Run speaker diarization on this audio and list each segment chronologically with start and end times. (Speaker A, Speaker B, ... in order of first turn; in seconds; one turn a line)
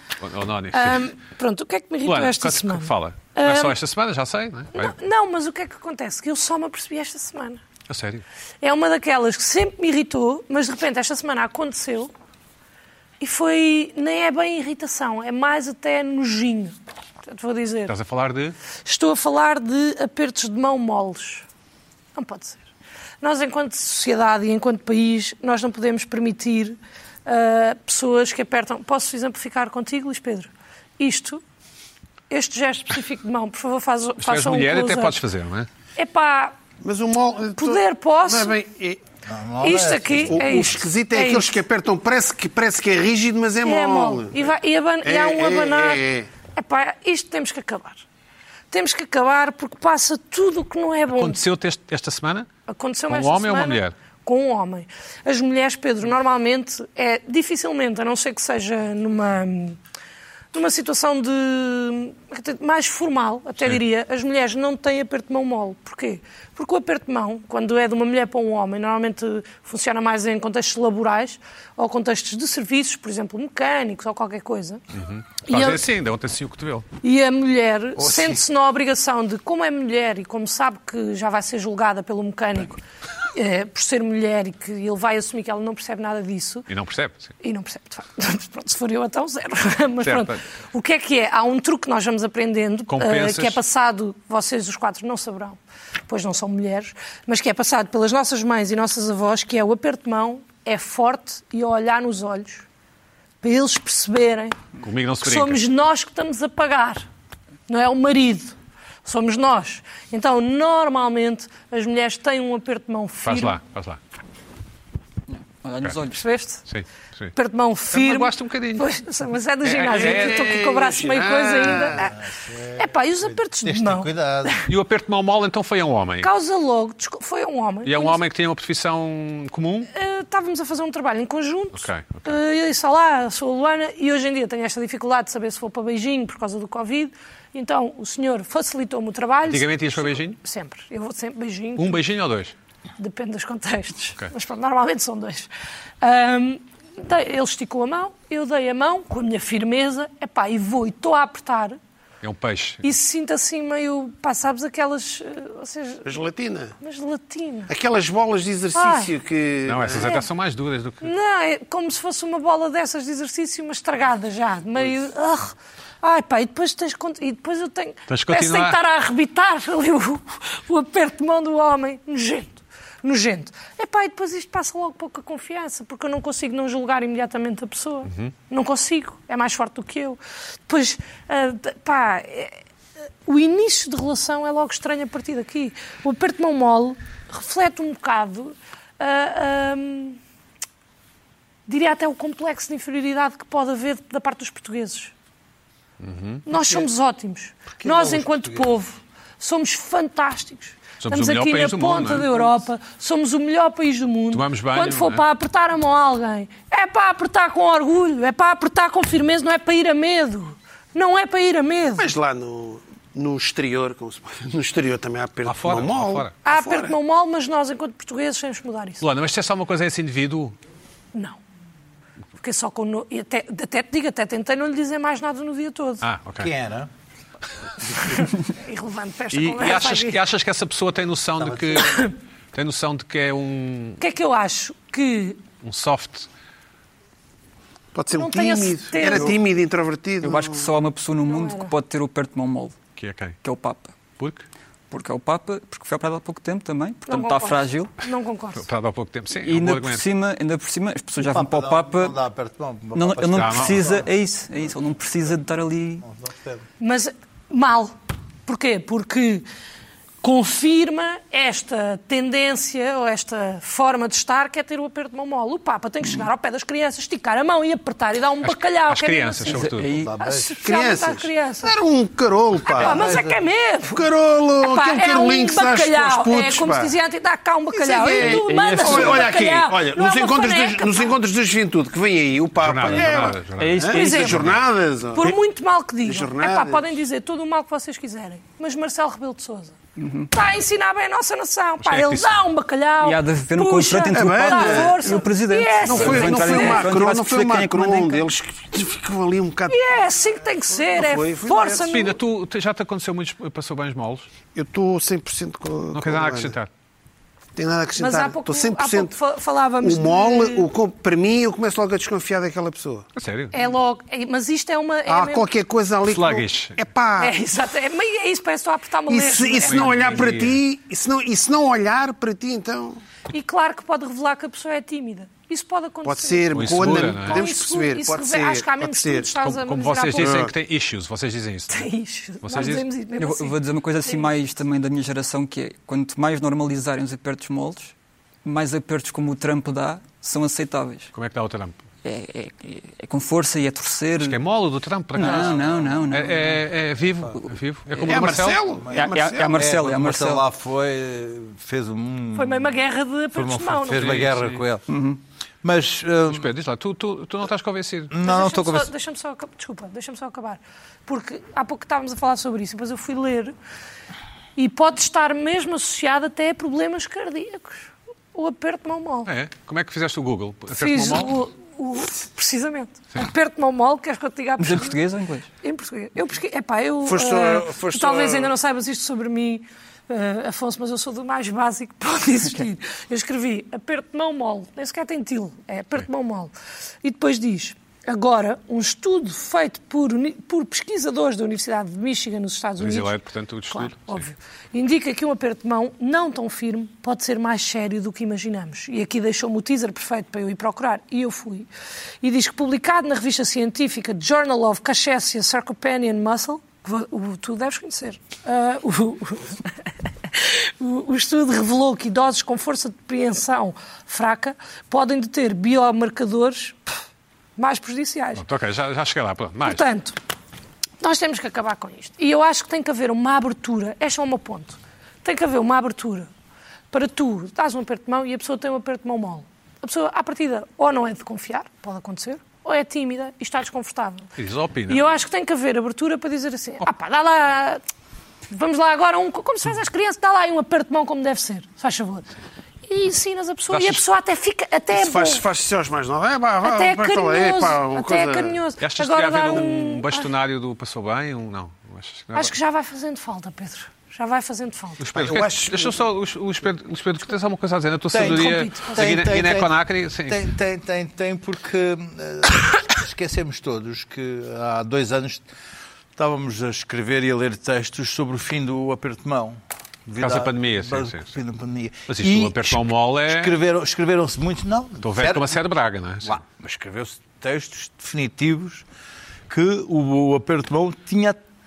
Speaker A: 0.2-1.1
Speaker B: 0.7-3.8
Speaker A: 2.0-5.0
Speaker B: 4.7-7.6
Speaker A: 7.9-8.2
Speaker B: 8.6-12.1
Speaker B: 13.2-17.9
Speaker A: 17.9-18.6
Speaker B: 18.9-21.4
Speaker B: 22.1-22.6
Speaker B: 23.2-31.4
Speaker B: 32.3-35.2
Speaker A: 34.2-35.7
Speaker B: 36.0-36.6
Speaker C: 36.8-39.0
Speaker B: 37.6-38.6
Speaker D: 39.3-40.4
Speaker B: 39.6-41.5
Speaker C: 40.3-44.5
Speaker B: 43.6-46.0
Speaker C: 45.0-46.3
Speaker B: 46.5-48.0
Speaker B: 48.7-51.4
Speaker A: 51.1-52.5
Speaker B: 52.7-59.8
Speaker A: 53.1-53.9
Speaker B: 60.5-74.8
Speaker A: 74.9-76.9
Speaker B: 75.5-75.8
Speaker B: 77.0-82.8
Speaker B: 83.3-86.7
Speaker A: 86.7-87.3
Speaker B: 87.4-102.7
Speaker A: 90.0-90.4
Speaker A: 92.9-93.6
Speaker B: 103.4-104.6
Speaker A: 104.8-105.6
Speaker B: 105.2-107.0
Speaker B: 107.7-113.6
Speaker A: 113.2-114.0
Speaker E: 115.3-116.3
Speaker B: 116.1-116.6
Speaker A: 116.7-117.3
Speaker B: 117.3-122.2
Speaker A: 117.9-118.9
Speaker A: 119.6-120.5
Speaker C: 119.9-122.1
Speaker D: 122.0-124.6
Speaker B: 122.8-124.7
Speaker A: 124.7-126.3
Speaker B: 126.2-128.2
Speaker A: 127.8-129.9
Speaker B: 129.9-142.0
Speaker A: 131.8-132.2
Speaker A: 139.5-140.4
Speaker A: 141.8-142.5
Speaker B: 143.0-145.5
Speaker B: 146.0-151.8
Speaker A: 152.2-152.9
Speaker B: 152.8-156.2
Speaker C: 156.1-156.8
Speaker B: 156.8-157.7
Speaker C: 157.7-160.1
Speaker B: 158.7-159.1
Speaker A: 159.7-161.1
Speaker B: 160.0-160.3
Speaker B: 161.0-182.6
Speaker A: 168.1-168.8
Speaker B: 183.3-190.2
Speaker B: 191.7-195.1
Speaker A: 196.0-196.4
Speaker B: 196.5-212.1
Speaker D: 197.8-198.6
Speaker A: 201.0-202.5
Speaker A: 204.3-205.2
Speaker C: 212.0-216.9
Speaker A: 215.4-216.3
Speaker B: 216.4-219.0
Speaker A: 219.0-220.6
Speaker B: 222.4-226.0
Speaker A: 226.0-226.5
Speaker D: 226.4-226.9
Speaker B: 228.0-230.2
Speaker A: 229.3-232.0
Speaker D: 231.4-231.8
Speaker B: 231.8-232.2
Speaker A: 232.5-234.0
Speaker B: 234.0-235.4
Speaker A: 235.6-236.3
Speaker C: 237.9-240.7
Speaker B: 238.1-239.4
Speaker E: 240.2-242.8
Speaker B: 241.3-241.7
Speaker A: 243.0-243.4
Speaker E: 243.4-243.9
Speaker A: 244.2-244.4
Speaker E: 244.9-247.9
Speaker B: 247.1-248.7
Speaker A: 248.6-250.0
Speaker E: 249.4-252.2
Speaker D: 251.2-254.1
Speaker E: 252.9-256.1
Speaker A: 253.3-253.8
Speaker D: 256.1-256.6
Speaker B: 256.8-257.9
Speaker B: 258.5-259.5
Speaker B: 260.2-271.8
Speaker A: 268.4-270.0
Speaker E: 269.5-270.1
Speaker D: 269.9-270.6
Speaker C: 270.6-273.1
Speaker B: 272.7-281.1
Speaker D: 272.8-273.4
Speaker C: 273.9-276.9
Speaker C: 277.7-285.4
Speaker E: 278.2-279.3
Speaker A: 282.6-284.6
Speaker E: 283.6-284.3
Speaker B: 283.9-284.5
Speaker B: 285.1-289.8
Speaker C: 286.1-286.9
Speaker E: 290.0-290.3
Speaker B: 290.3-296.9
Speaker A: 291.8-292.4
Speaker E: 293.0-298.3
Speaker C: 294.1-295.2
Speaker C: 295.8-299.8
Speaker B: 299.7-302.2
Speaker C: 300.7-301.9
Speaker A: 301.9-304.3
Speaker C: 304.6-306.6
Speaker A: 305.9-306.7
Speaker C: 307.6-309.1
Speaker B: 308.0-310.7
Speaker C: 309.8-313.1
Speaker A: 313.2-313.6
Speaker B: 313.5-315.5
Speaker C: 315.1-317.4
Speaker A: 316.1-316.8
Speaker B: 317.2-320.3
Speaker C: 319.1-323.0
Speaker A: 319.6-320.6
Speaker B: 323.3-330.5
Speaker C: 326.1-329.3
Speaker A: 326.5-327.4
Speaker A: 329.4-331.9
Speaker C: 330.2-330.5
Speaker B: 331.7-334.3
Speaker A: 332.4-332.9
Speaker E: 333.2-341.1
Speaker A: 341.1-341.8
Speaker E: 342.0-344.4
Speaker A: 344.2-348.6
Speaker E: 345.1-346.6
Speaker E: 348.0-348.3
Speaker C: 348.0-349.6
Speaker D: 348.9-352.8
Speaker E: 348.9-350.4
Speaker B: 352.4-354.2
Speaker D: 353.3-354.9
Speaker A: 354.0-354.6
Speaker E: 354.9-355.2
Speaker D: 355.6-356.5
Speaker A: 356.3-358.1
Speaker D: 358.1-358.9
Speaker B: 358.2-363.5
Speaker B: 364.6-369.3
Speaker A: 369.3-371.4
Speaker B: 370.7-375.0
Speaker E: 374.6-375.5
Speaker B: 375.6-386.5
Speaker C: 377.1-378.5
Speaker B: 387.0-393.2
Speaker A: 392.8-394.3
Speaker B: 393.7-401.7
Speaker B: 402.2-416.8
Speaker B: 417.6-418.4
Speaker A: 418.4-419.8
Speaker B: 419.6-420.2
Speaker B: 421.0-426.3
Speaker B: 426.9-434.3
Speaker A: 434.4-435.0
Speaker B: 434.9-437.8
Speaker B: 438.5-442.3
Speaker B: 442.9-445.4
Speaker A: 443.7-444.0
Speaker C: 444.9-448.6
Speaker B: 446.6-450.3
Speaker A: 448.8-452.5
Speaker B: 452.4-455.0
Speaker A: 455.0-460.4
Speaker C: 455.1-456.0
Speaker D: 458.1-465.4
Speaker B: 458.1-459.1
Speaker D: 466.2-475.5
Speaker A: 470.2-471.4
Speaker A: 472.1-473.6
Speaker A: 475.0-476.4
Speaker D: 476.2-478.9
Speaker D: 479.5-481.4